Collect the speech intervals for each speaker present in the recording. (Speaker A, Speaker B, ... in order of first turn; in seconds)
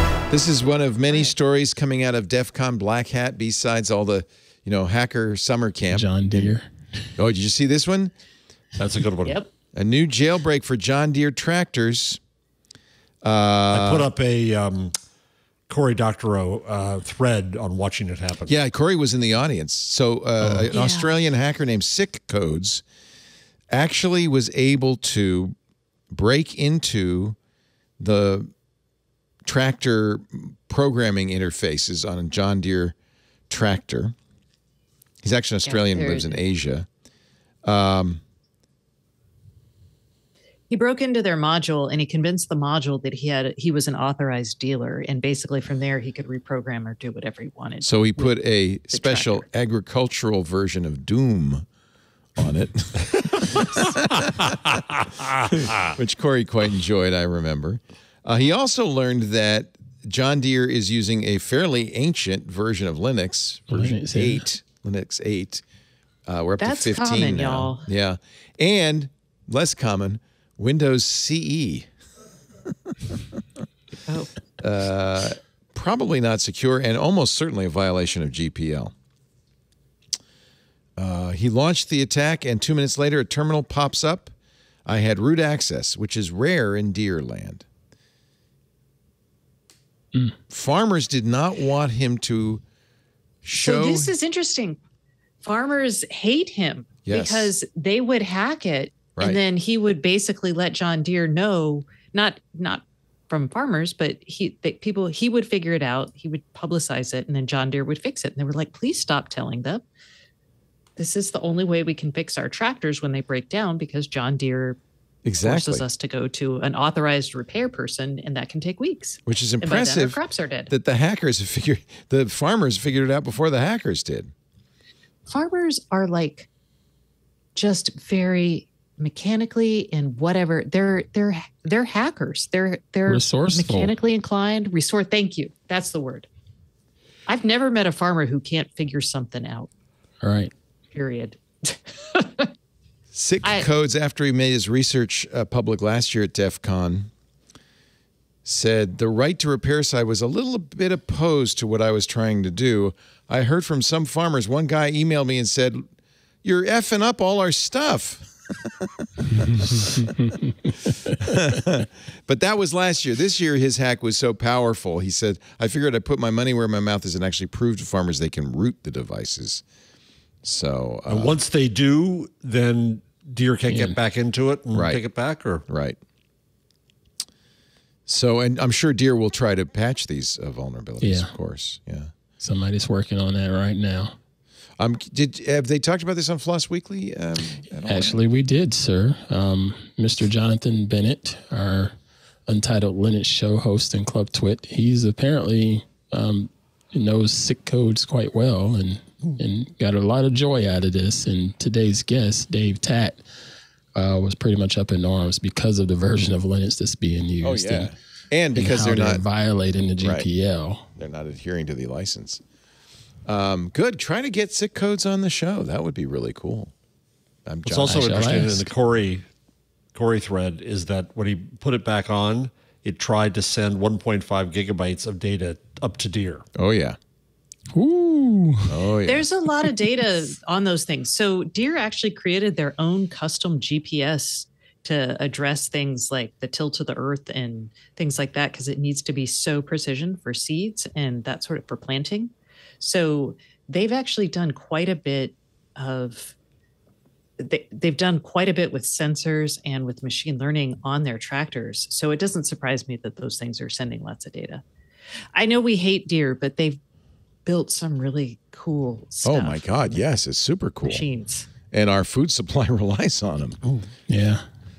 Speaker A: 0.3-6.6, 7.2-8.1, 9.7-12.2, 13.2-14.1, 18.5-22.8, 23.7-25.6, 26.1-27.4, 28.0-28.5, 29.5-33.0, 33.5-34.1, 35.2-36.9, 37.6-38.2, 47.8-51.6, 52.4-54.5, 55.8-65.6, 66.3-71.9, 74.6-78.9, 81.0-84.3, 84.9-87.7, 90.5-92.6, 93.4-94.1, 97.0-97.5, 99.2-99.4, 115.2-115.9, 119.3-124.3, 143.1-147.1, 148.4-155.9, 156.4-160.1, 161.2-169.6, 170.4-171.4, 174.7-175.0, 175.7-176.0, 178.1-182.1, 184.8-188.2, 207.4-209.3, 210.0-210.3, 211.0-212.4, 213.3-216.7, 217.5-218.1, 226.6-227.0, 228.7-229.3, 259.2-261.1, 261.7-263.6
Speaker B: 5.9-6.7, 20.4-20.7, 63.7-64.5, 133.1-133.9, 140.2-140.5, 173.7-174.0, 181.0-181.3, 182.4-184.2, 187.8-191.9, 192.5-203.2, 203.9-207.9, 208.5-210.9, 217.8-218.7, 227.7-228.8, 264.1-264.4
Speaker C: 8.8-9.4, 13.7-14.9, 15.7-18.6, 54.7-55.8, 171.1-175.6, 217.7-219.3, 219.9-226.4
Speaker D: 9.2-9.5, 20.7-21.1, 35.7-36.4, 40.7-48.4, 48.9-49.5, 66.6-67.9, 74.1-74.3, 93.6-94.8, 95.4-109.8, 111.0-114.8, 115.4-120.7, 125.3-126.5, 127.5-136.3, 137.3-139.7, 140.9-142.5, 143.4-143.7, 229.1-246.3, 247.4-254.6, 255.3-256.8, 257.4-259.8, 260.9-261.5